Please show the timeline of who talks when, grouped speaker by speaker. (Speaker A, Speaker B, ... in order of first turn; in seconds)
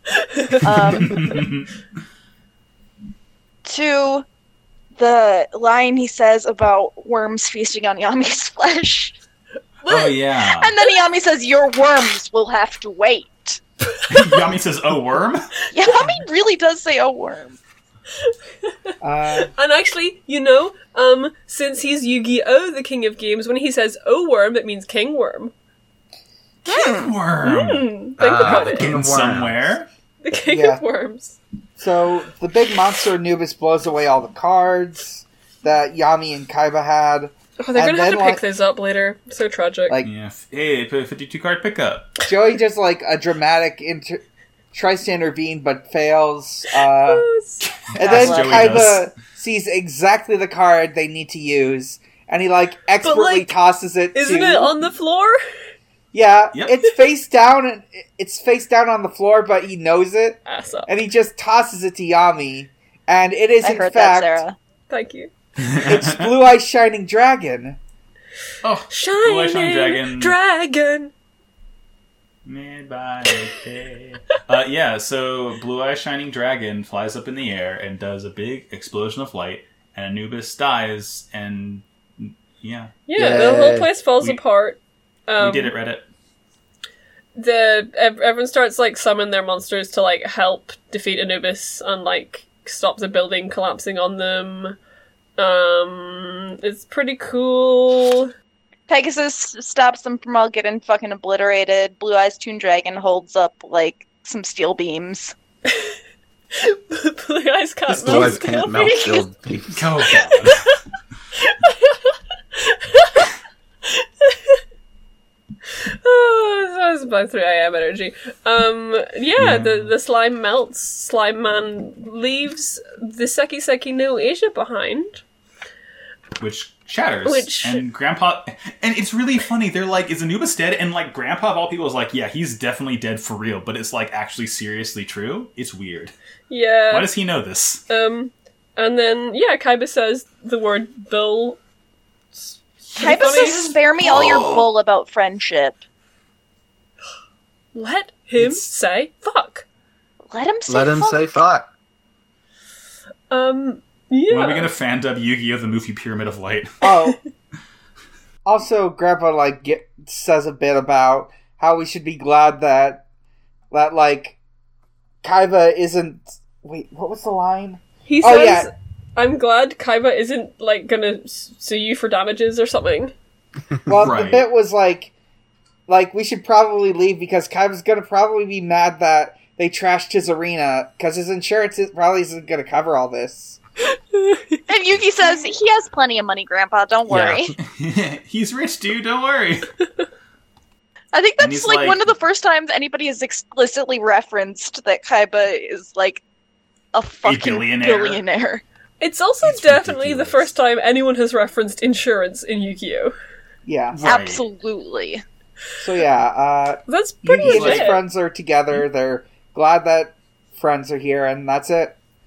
Speaker A: 0.2-0.6, 9.8-10.1, 13.9-14.3, 19.4-25.5, 27.4-28.8, 30.2-31.4, 37.6-40.0, 46.8-47.7, 53.0-53.5, 54.1-55.4, 60.5-60.9, 64.9-65.3, 68.9-71.1, 83.1-85.7, 87.3-94.8, 95.4-98.3, 106.5-109.3, 110.3-110.6, 111.4-113.3, 114.0-114.5, 116.0-125.2, 127.2-127.8, 136.5-137.1, 137.9-141.6, 142.9-143.8, 147.7-149.6, 153.3-154.7, 168.1-173.1, 184.1-184.6, 199.0-203.1, 206.9-208.0
Speaker B: 0.6-1.4, 3.6-4.2, 5.0-9.1, 10.6-13.6, 15.7-17.6, 26.7-27.1, 48.0-48.9, 63.6-64.6, 98.9-105.3, 142.9-145.8, 150.3-151.4, 184.7-187.5, 191.1-196.2, 196.9-198.6, 204.0-205.2
Speaker C: 0.9-1.7, 9.9-10.7, 14.1-15.5, 26.6-27.9, 28.4-29.9, 40.0-42.2, 47.6-49.1, 65.6-66.3, 68.6-70.3, 72.4-83.0, 85.4-86.1, 107.9-108.4, 109.7-110.7, 119.4-119.9, 126.4-136.1, 136.9-137.8, 144.0-144.7, 148.4-148.7, 154.3-156.8, 174.0-174.5, 187.1-189.7, 191.4-192.1, 197.2-198.2, 199.4-200.5, 203.9-204.4, 207.4-208.0
Speaker D: 19.0-19.5, 30.4-30.8, 31.8-38.4, 42.2-44.2, 44.7-47.3, 47.9-54.7, 56.1-64.4, 65.8-67.8, 156.8-157.2, 158.4-163.0, 163.7-164.4, 165.2-168.7, 173.8-175.1, 175.9-183.6, 203.7-204.0, 205.8-211.9
Speaker E: 28.2-29.8, 83.1-83.9, 108.0-109.9, 150.7-151.7